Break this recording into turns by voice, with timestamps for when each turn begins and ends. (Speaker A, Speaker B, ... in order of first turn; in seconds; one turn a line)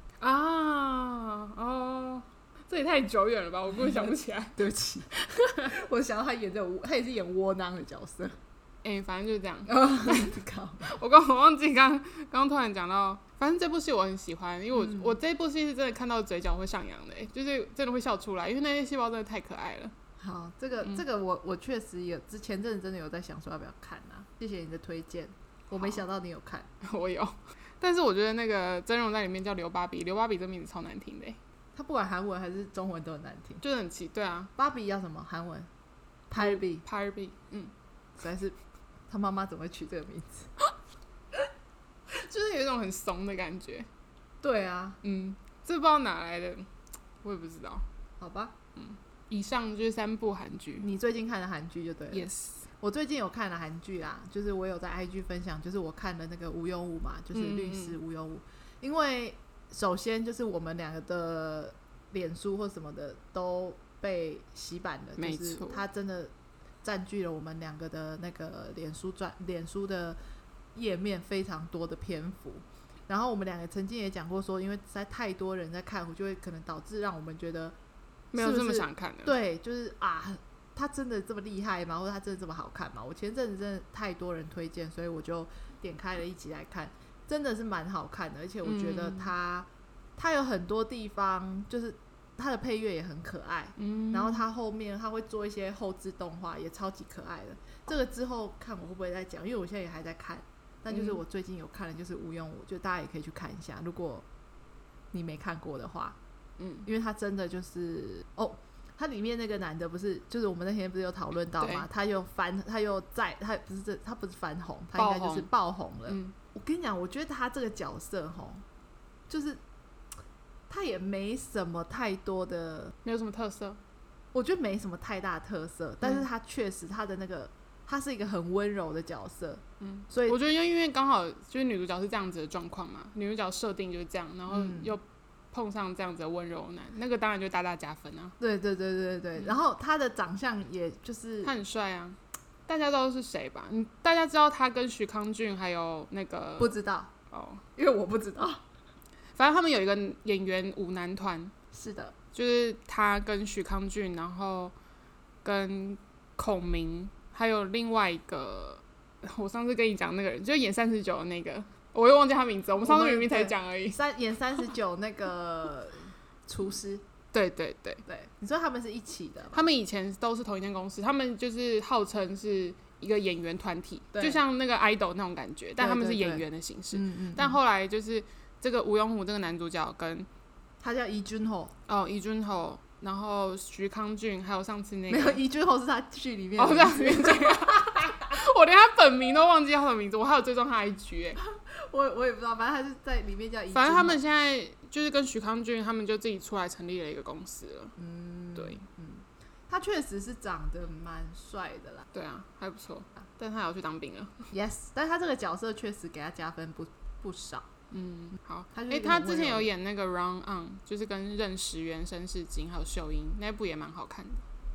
Speaker A: 0.2-4.6
Speaker B: 4.6-5.1
Speaker A: 5.1-5.8
Speaker B: 5.6-8.4
Speaker A: 8.8-19.9
Speaker B: 9.7-11.0
Speaker B: 14.7-15.2
Speaker B: 20.2-26.7
Speaker A: 26.8-31.4
Speaker B: 31.8-33.6
Speaker A: 33.6-34.5
Speaker B: 34.6-35.7
Speaker B: 36.3-36.8
Speaker A: 36.4-37.7
Speaker B: 38.2-38.6
Speaker B: 39.1-40.5
Speaker A: 42.1-43.9
Speaker B: 44.4-45.0
Speaker A: 45.0-46.7
Speaker A: 47.2-47.9
Speaker B: 48.2-48.5
Speaker A: 48.8-50.9
Speaker B: 50.8-66.3
Speaker A: 52.1-52.7
Speaker A: 57.3-58.0
Speaker A: 65.2-65.8
Speaker B: 66.8-70.2
Speaker B: 70.8-77.8
Speaker A: 78.3-79.3
Speaker B: 78.4-104.2
Speaker A: 88.6-89.3
Speaker A: 93.8-94.4
Speaker A: 100.9-101.2
Speaker B: 105.1-106.2
Speaker A: 106.6-106.9
Speaker B: 106.8-118.7
Speaker A: 111.6-111.9
Speaker A: 115.0-115.5
Speaker A: 116.1-116.3
Speaker B: 119.3-119.6
Speaker B: 120.7-123.0
Speaker A: 123.0-123.8
Speaker B: 124.3-130.4
Speaker A: 129.8-138.3
Speaker B: 134.5-135.0
Speaker B: 138.4-141.6
Speaker A: 141.4-146.8
Speaker B: 146.6-147.1
Speaker A: 147.3-147.6
Speaker B: 147.8-148.6
Speaker A: 149.3-151.5
Speaker B: 151.7-152.2
Speaker A: 152.3-154.7
Speaker A: 155.4-164.0
Speaker B: 162.8-167.0
Speaker A: 167.3-168.0
Speaker B: 168.1-169.7
Speaker A: 169.5-180.3
Speaker B: 174.1-174.4
Speaker B: 175.8-177.6
Speaker B: 180.8-181.7
Speaker A: 181.9-185.4
Speaker B: 185.1-188.3
Speaker A: 186.6-191.4
Speaker B: 191.4-194.2
Speaker A: 193.7-197.9
Speaker B: 198.0-202.1
Speaker A: 202.1-204.5
Speaker B: 204.5-207.7
Speaker A: 207.9-214.5
Speaker B: 208.7-209.7